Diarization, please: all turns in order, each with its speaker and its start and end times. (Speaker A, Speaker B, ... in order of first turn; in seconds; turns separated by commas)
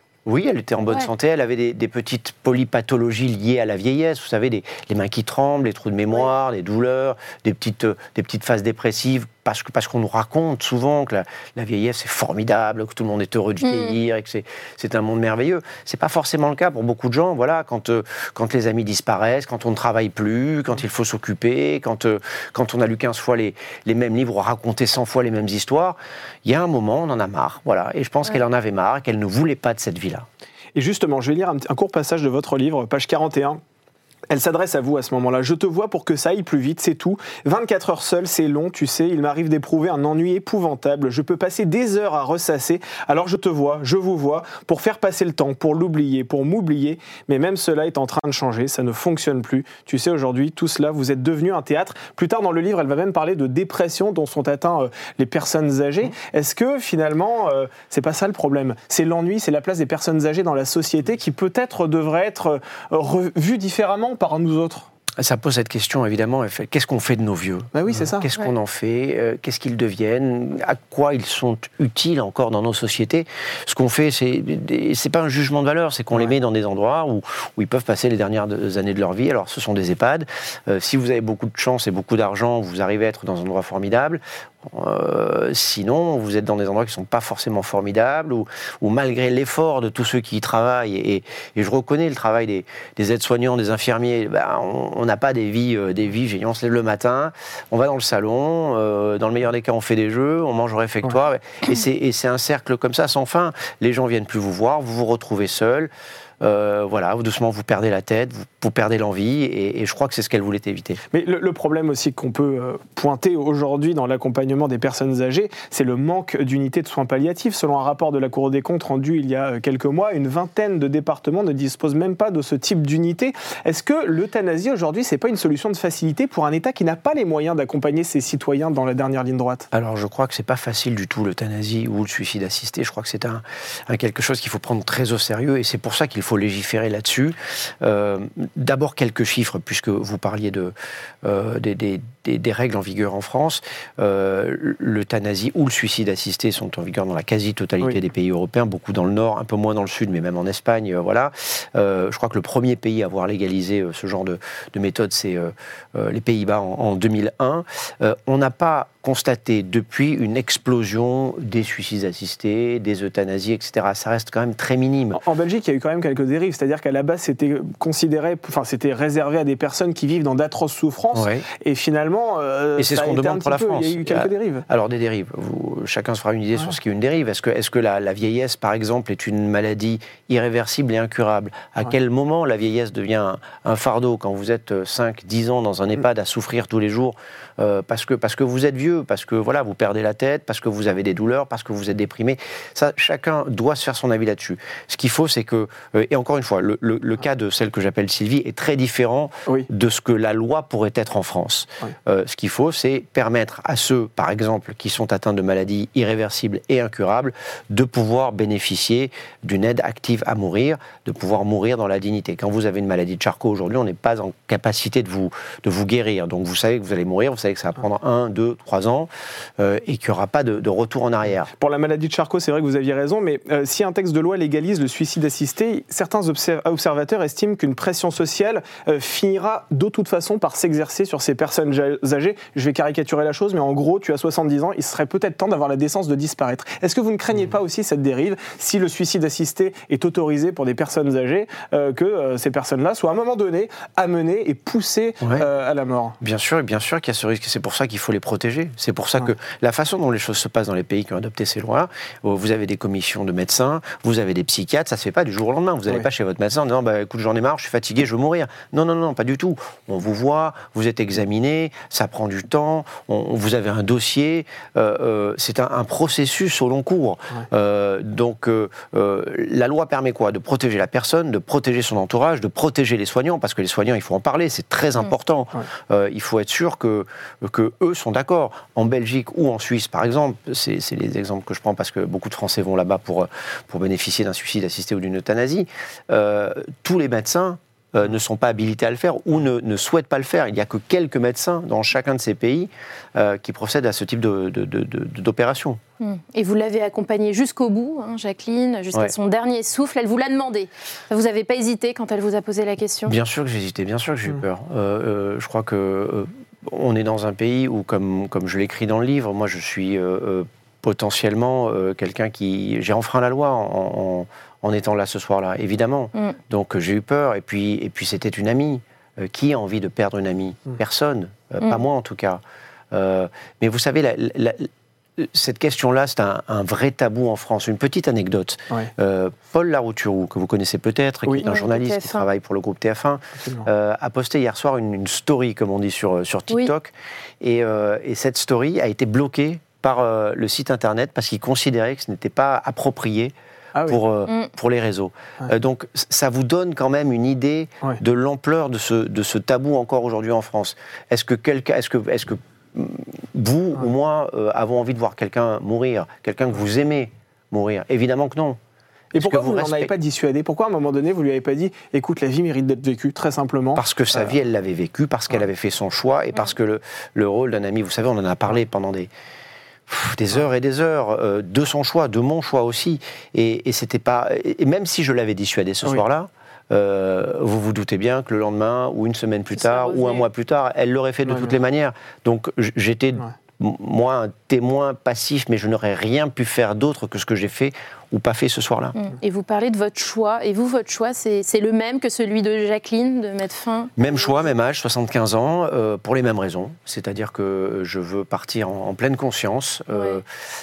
Speaker A: 0.2-30.3, Speaker B: 13.6-13.9, Speaker C: 30.7-33.6, Speaker C: 34.3-64.9, Speaker A: 65.2-105.9, Speaker C: 67.7-68.3, Speaker A: 106.4-111.0, Speaker C: 111.1-129.7, Speaker A: 129.7-165.2, Speaker C: 165.1-174.6, Speaker A: 171.1-171.4, Speaker A: 172.8-221.5, Speaker C: 221.6-246.2, Speaker A: 246.2-295.8, Speaker B: 296.0-303.1, Speaker A: 303.1-322.4, Speaker A: 322.9-343.3, Speaker B: 331.4-332.2, Speaker C: 343.7-344.0, Speaker A: 343.9-358.6, Speaker A: 359.1-359.9, Speaker C: 359.1-364.3, Speaker A: 363.8-369.1, Speaker A: 369.9-388.9, Speaker B: 379.6-380.2, Speaker C: 381.3-381.5, Speaker B: 388.9-394.4, Speaker A: 394.0-400.2, Speaker B: 399.9-400.2